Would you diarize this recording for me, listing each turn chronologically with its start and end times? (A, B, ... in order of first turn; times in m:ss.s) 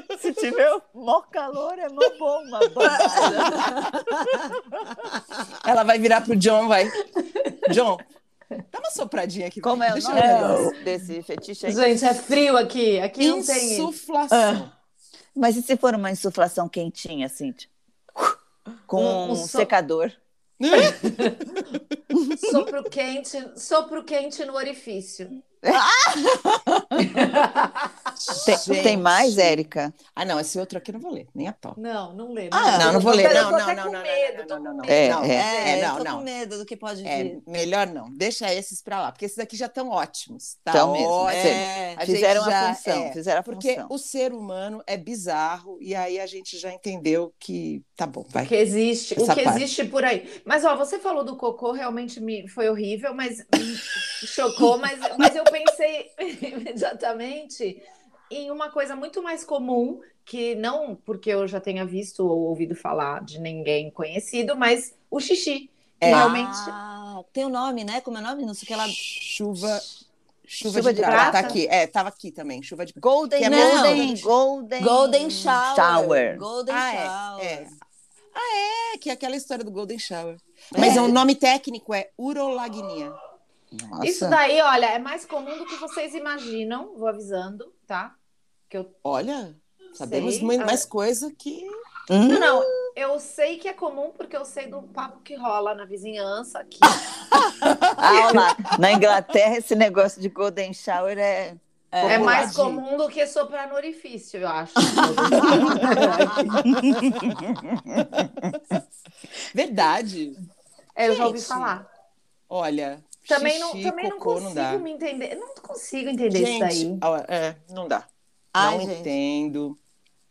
0:00.2-0:03.8 A
0:03.0-0:04.0 B
0:03.2-0:03.5 C
0:05.6-0:07.1 C
0:07.4-0:07.7 D
0:07.6-0:08.0 C
0:08.7-0:10.8 C
0:09.6-0:11.8 A
0:10.1-0:10.8 D
0:10.3-0:10.7 B
0:11.6-0:13.9 D
0:13.2-0:14.7 C
0:14.3-0:14.6 B
0:15.3-0:18.3 A
0:18.9-0:20.2 A
0:18.9-0:19.7 D
0:20.6-0:21.6 C
0:22.3-0:25.4 D
0:25.6-0:26.3 A
0:27.0-0:27.9 D
0:28.1-0:31.8 C
0:28.4-0:30.0 A
0:28.7-0:29.0 B
0:31.8-0:35.9 D
0:32.5-0:33.5 B
0:32.7-0:36.2 C
0:34.9-0:35.5 A
0:35.3-0:37.4 B
0:37.0-0:48.5 C
0:40.7-0:43.9 A
0:41.2-0:42.0 B
0:48.4-1:06.3 D
0:49.2-0:49.6 C
1:06.0-1:06.3 C
1:06.1-1:09.0 B
1:06.1-1:06.5 A
1:08.8-1:09.9 C
1:10.5-1:14.2 C
1:10.7-1:11.6 D
1:10.7-1:11.6 A
1:13.0-1:16.4 A
1:13.4-1:14.2 B
1:14.8-1:17.7 B
1:16.7-1:17.8 C
1:18.3-1:23.2 C
1:20.7-1:21.2 B
1:20.8-1:21.0 A
1:23.7-1:24.4 A
1:24.0-1:28.2 D
1:28.7-1:29.0 D
1:29.0-1:31.8 C
1:30.0-1:30.8 D
1:32.1-1:32.7 B
1:32.2-1:32.7 A
1:32.3-1:37.0 D
1:38.0-1:42.7 A
1:41.9-1:42.6 B
1:42.0-1:42.7 C
1:42.1-1:46.7 D
1:45.5-1:45.8 C
1:46.6-1:47.3 C
1:48.0-1:48.6 C
1:49.5-1:50.4 C
1:51.0-1:51.9 D
1:51.1-1:51.8 C
1:52.5-1:54.8 C
1:53.3-1:57.0 D
1:56.3-1:58.1 C
1:58.5-1:59.1 B
1:58.6-1:59.8 C